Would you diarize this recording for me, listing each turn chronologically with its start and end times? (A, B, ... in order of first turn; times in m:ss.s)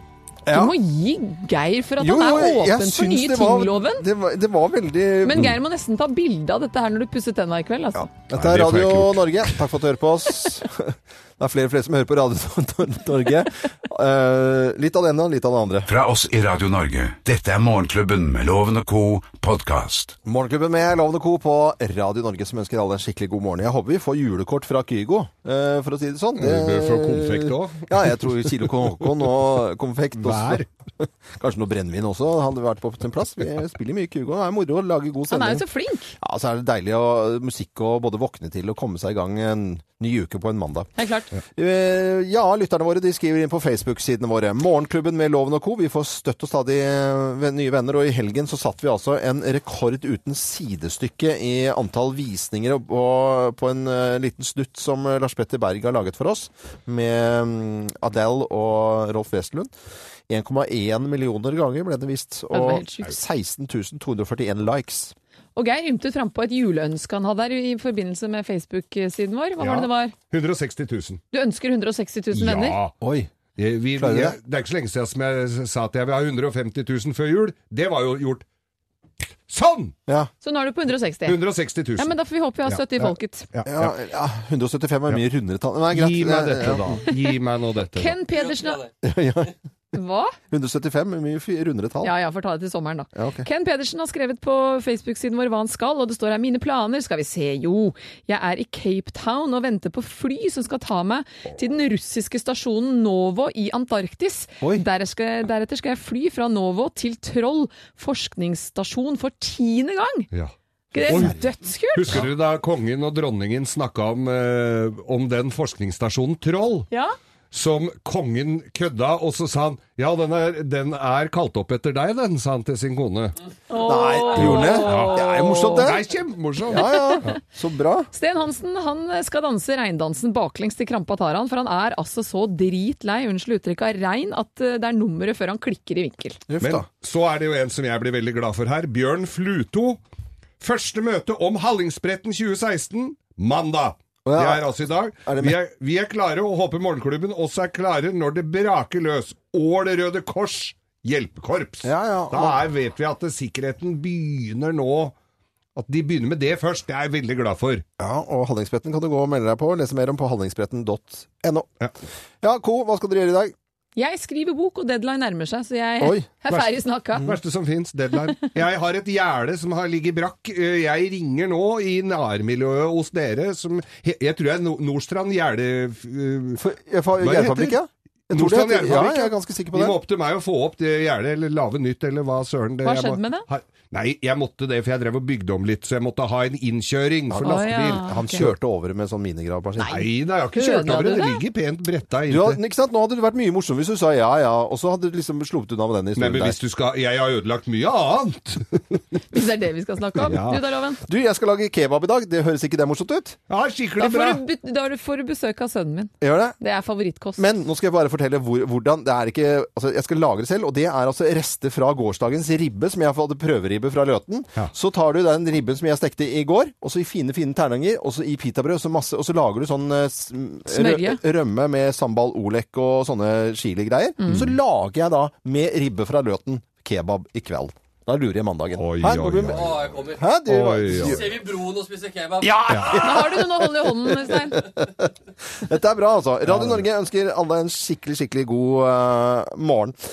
0:00.4-0:00.7 A
0:00.5-0:04.0 B
0:02.0-0:05.5 A
0:05.2-0:08.1 B
0:07.9-0:15.9 A
0:08.3-0:09.5 C
0:15.9-0:20.2 D
0:20.2-0:35.6 A
0:26.4-0:28.5 C
0:30.2-0:30.7 C
0:35.3-0:36.1 B
0:36.2-0:40.9 A
0:41.0-0:41.3 B
0:41.5-0:59.7 A
1:00.3-1:05.1 A
1:02.5-1:03.1 B
1:05.6-1:10.1 B
1:09.6-1:11.2 C
1:11.3-1:12.8 B
1:12.3-1:13.0 C
1:13.0-1:13.3 A
1:13.5-1:18.4 C
1:14.0-1:14.4 A
1:19.5-1:19.9 C
1:20.4-1:21.4 B
1:21.2-1:22.1 C
1:22.0-1:23.5 B
1:22.6-1:23.9 C
1:23.6-1:27.0 A
1:25.9-1:28.2 C
1:27.1-1:27.3 B
1:27.9-1:28.9 B
1:28.3-1:28.9 E
1:29.0-1:29.5 A
1:29.9-1:30.4 B
1:30.5-1:32.1 A
1:32.0-1:50.3 B
1:33.1-1:33.4 A
1:50.3-1:56.9 C
1:50.9-1:52.2 B
1:51.0-1:51.4 A
1:57.5-2:03.4 C
2:03.7-2:05.9 B
2:03.8-2:06.1 A
2:04.3-2:07.4 C
2:06.7-2:08.1 A
2:06.7-2:07.3 B
2:08.1-2:16.4 B
2:16.5-2:16.9 A
2:16.6-2:20.0 C
2:20.6-2:35.1 C
2:24.2-2:25.6 A
2:31.8-2:32.6 A
2:35.8-2:37.8 C
2:38.0-2:41.7 A
2:42.4-2:43.5 A
2:44.0-2:47.2 B
2:46.0-2:46.4 A
2:47.2-2:56.6 C
2:56.6-3:00.0 A
2:57.2-2:57.8 C
2:58.3-3:08.5 C
3:02.8-3:03.5 B
3:07.3-3:10.0 A
3:07.4-3:08.4 B
3:09.8-3:11.4 B
3:09.9-3:12.6 C
3:12.3-3:16.6 A
3:16.2-3:19.2 C
3:19.3-3:21.0 B
3:20.2-3:20.6 C
3:21.0-3:23.4 A
3:23.5-3:24.4 C
3:24.0-3:27.4 B
3:26.2-3:26.6 A
3:27.4-3:51.5 A
3:40.7-3:41.2 B
3:44.2-3:44.5 B
3:48.8-3:51.3 C
3:49.5-3:50.2 E
3:51.1-3:52.7 E
3:52.4-4:00.0 A
3:52.6-3:53.1 C
3:52.9-3:54.6 B
3:56.5-3:56.8 C